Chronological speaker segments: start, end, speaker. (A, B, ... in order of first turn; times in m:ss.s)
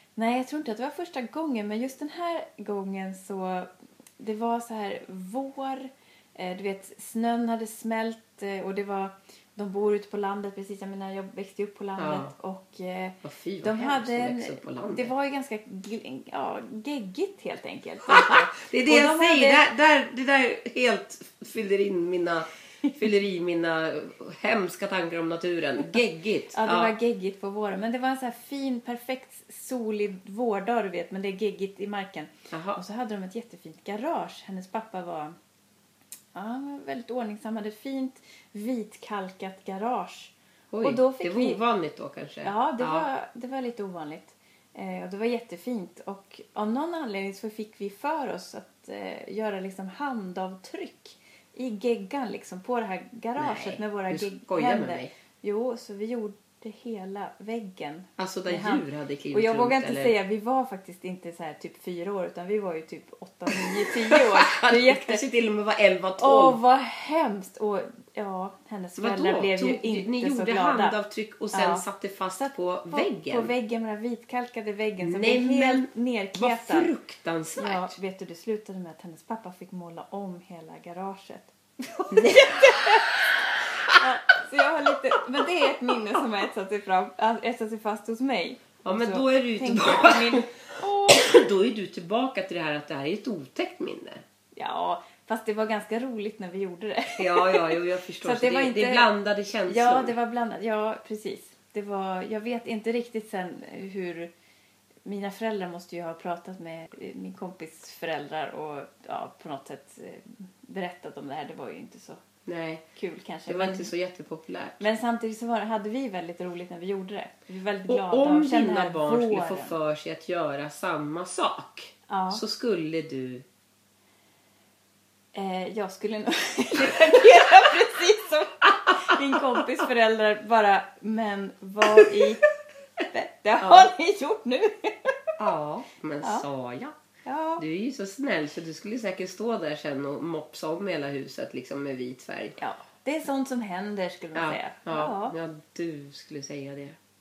0:00.2-0:19.7 A
0:12.0-0:12.3 B
0:13.2-0:15.1 B
0:18.1-0:26.9 B
0:26.5-0:35.3 A
0:32.5-0:32.8 B
0:36.3-0:41.6 A
0:40.7-0:43.1 B
0:42.4-1:05.2 A
0:53.4-0:55.1 B
0:58.2-1:00.2 B
1:03.5-1:06.6 B
1:06.2-1:10.9 A
1:09.0-1:13.5 B
1:11.5-1:11.8 A
1:12.4-1:16.9 A
1:15.0-1:18.0 B
1:17.6-1:23.2 A
1:22.1-1:23.1 B
1:23.9-1:30.5 A
1:28.8-1:34.2 B
1:34.5-1:39.1 A
1:37.2-1:40.1 B
1:39.7-1:44.3 A
1:45.0-1:52.2 A
1:52.4-1:52.8 B
1:53.0-1:53.9 A
1:53.5-1:54.8 B
1:54.8-1:59.8 A
1:57.9-2:03.4 B
2:02.1-2:02.4 A
2:05.3-2:12.4 A
2:13.0-2:15.2 A
2:13.6-2:13.9 B
2:15.4-2:16.9 B
2:17.2-2:17.6 A
2:17.6-2:22.6 B
2:22.6-2:25.3 A
2:24.3-2:27.0 B